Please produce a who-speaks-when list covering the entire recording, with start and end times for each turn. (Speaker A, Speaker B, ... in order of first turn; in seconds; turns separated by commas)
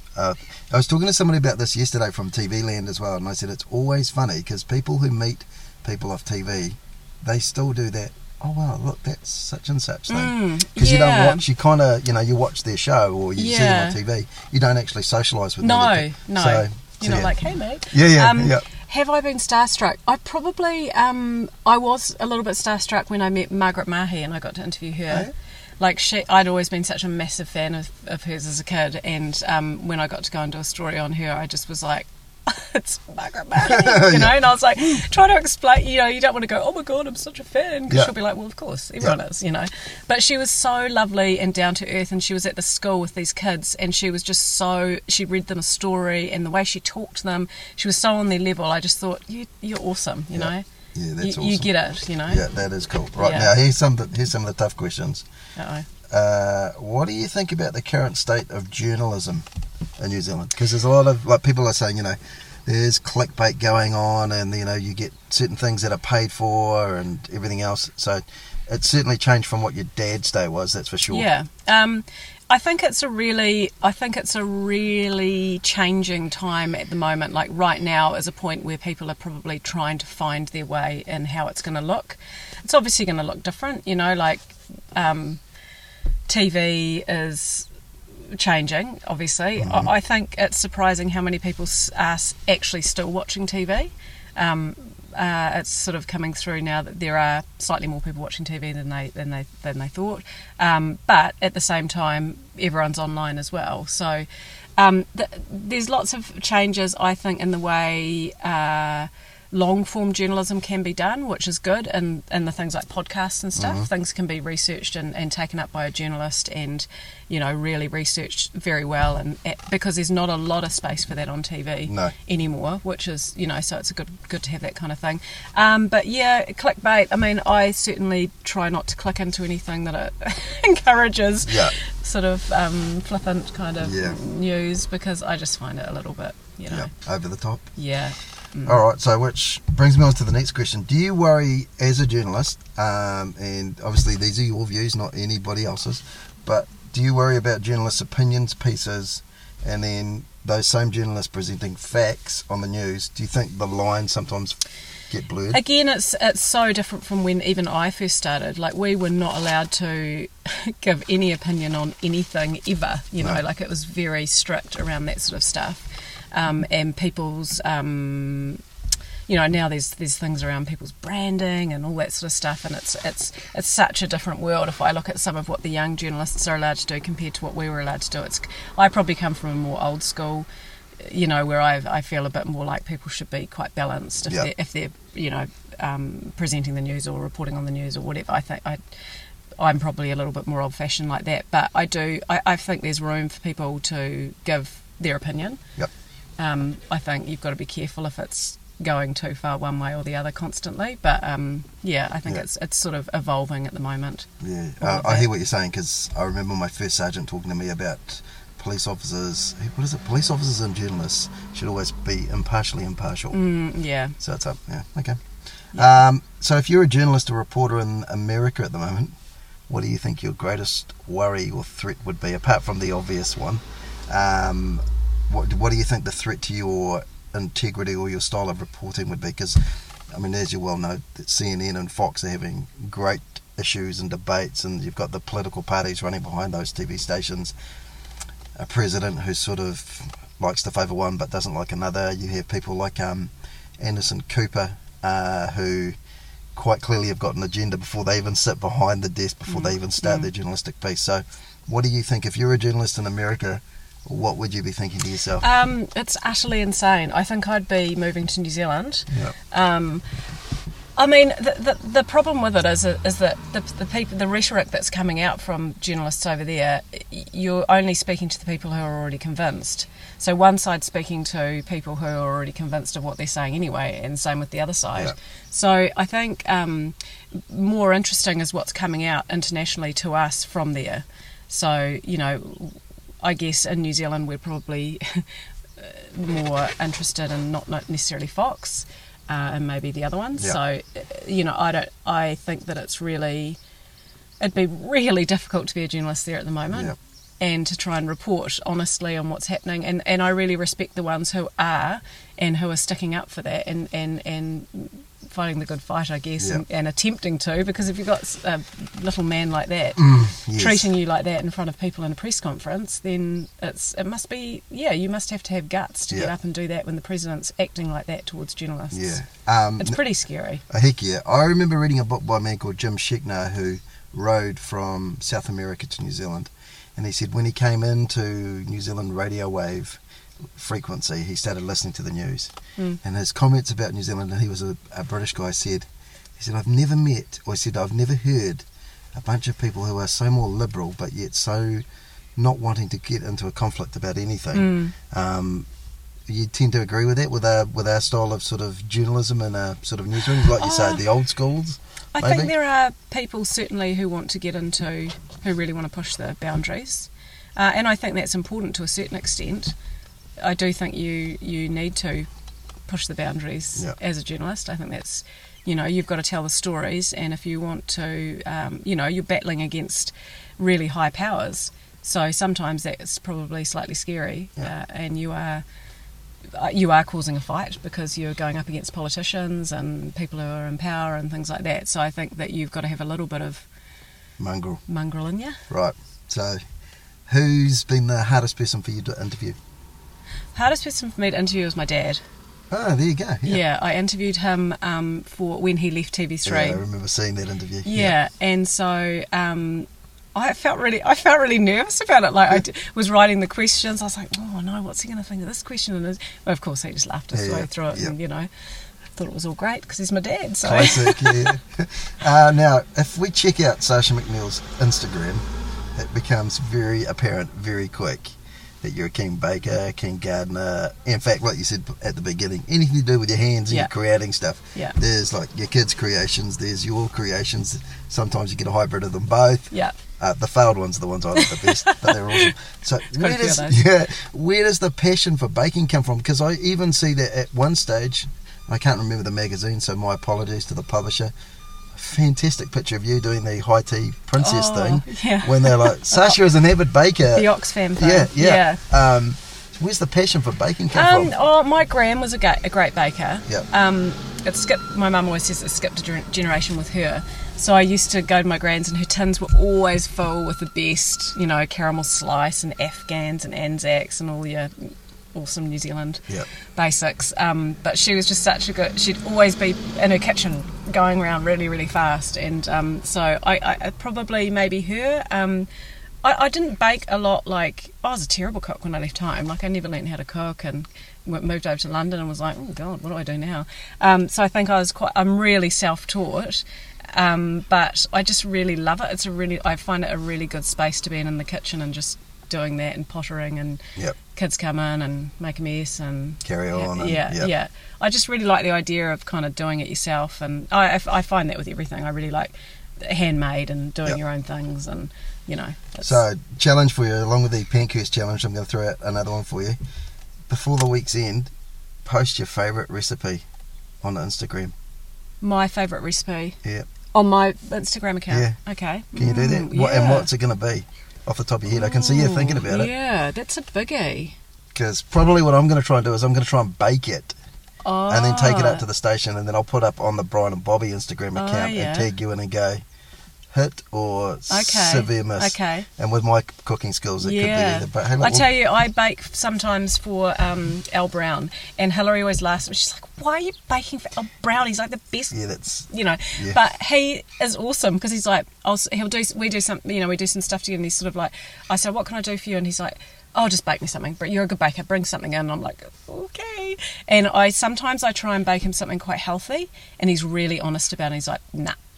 Speaker A: 0.1-17.3, Speaker B: 10.1-11.4, Speaker B: 13.4-14.0, Speaker B: 15.6-25.3, Speaker A: 17.9-18.6, Speaker B: 25.8-50.6, Speaker A: 33.6-34.4, Speaker A: 50.3-51.7, Speaker B: 51.2-52.4, Speaker A: 52.3-55.2, Speaker B: 53.2-53.5, Speaker B: 55.5-55.9, Speaker A: 56.1-59.5, Speaker A: 60.0-71.3, Speaker B: 71.1-85.4, Speaker B: 86.3-87.7, Speaker B: 88.3-104.2, Speaker A: 89.6-89.9, Speaker B: 104.8-136.9, Speaker A: 113.6-113.9, Speaker A: 121.9-122.1, Speaker A: 131.4-131.7, Speaker A: 133.8-134.2, Speaker A: 136.7-137.7, Speaker B: 137.8-138.8, Speaker A: 138.7-154.6, Speaker A: 155.1-155.6, Speaker B: 155.5-168.6, Speaker B: 169.3-180.5, Speaker B: 181.0-188.8, Speaker B: 189.6-195.6, Speaker B: 196.4-204.3, Speaker A: 204.4-213.4, Speaker B: 204.8-205.2, Speaker B: 213.3-214.2, Speaker A: 214.2-215.2, Speaker B: 215.7-216.0, Speaker A: 215.7-219.2, Speaker A: 219.7-237.5, Speaker A: 238.6-245.9, Speaker A: 246.5-255.4, Speaker B: 249.5-250.3, Speaker B: 255.4-260.0, Speaker B: 261.0-285.2, Speaker B: 285.8-293.6, Speaker B: 294.4-319.2, Speaker A: 296.7-296.9, Speaker A: 310.0-310.9, Speaker A: 318.9-320.0, Speaker B: 319.8-320.6, Speaker A: 320.7-330.0, Speaker A: 330.5-341.8, Speaker A: 342.4-345.7, Speaker B: 344.5-344.9, Speaker A: 346.3-352.5, Speaker B: 350.6-351.0, Speaker B: 352.1-359.7, Speaker B: 360.4-362.3, Speaker B: 362.9-375.6, Speaker B: 376.5-383.6, Speaker A: 384.4-384.8, Speaker B: 384.9-385.6, Speaker A: 385.7-386.6, Speaker A: 387.3-389.6, Speaker B: 390.5-392.2, Speaker A: 392.7-393.6, Speaker B: 393.4-396.8, Speaker A: 396.4-398.1, Speaker B: 397.8-408.5, Speaker A: 407.3-408.1, Speaker B: 409.2-411.5, Speaker A: 410.6-441.3, Speaker B: 431.4-432.5, Speaker B: 433.1-433.8, Speaker A: 441.9-451.3, Speaker B: 444.4-446.4, Speaker B: 447.3-448.8, Speaker B: 450.9-466.2, Speaker B: 466.8-475.7, Speaker B: 476.2-493.8, Speaker B: 494.3-506.2, Speaker A: 496.4-497.5, Speaker A: 506.0-509.8, Speaker A: 510.5-511.5, Speaker A: 512.0-513.4, Speaker A: 514.0-514.7, Speaker B: 515.4-516.6, Speaker B: 517.1-520.3, Speaker A: 519.1-522.9, Speaker B: 521.7-524.4, Speaker A: 524.7-527.4, Speaker B: 527.8-528.8, Speaker A: 528.1-532.8, Speaker B: 531.3-532.1, Speaker A: 533.5-538.5, Speaker B: 534.5-535.9, Speaker B: 537.2-545.4, Speaker A: 545.3-546.6, Speaker B: 545.9-561.8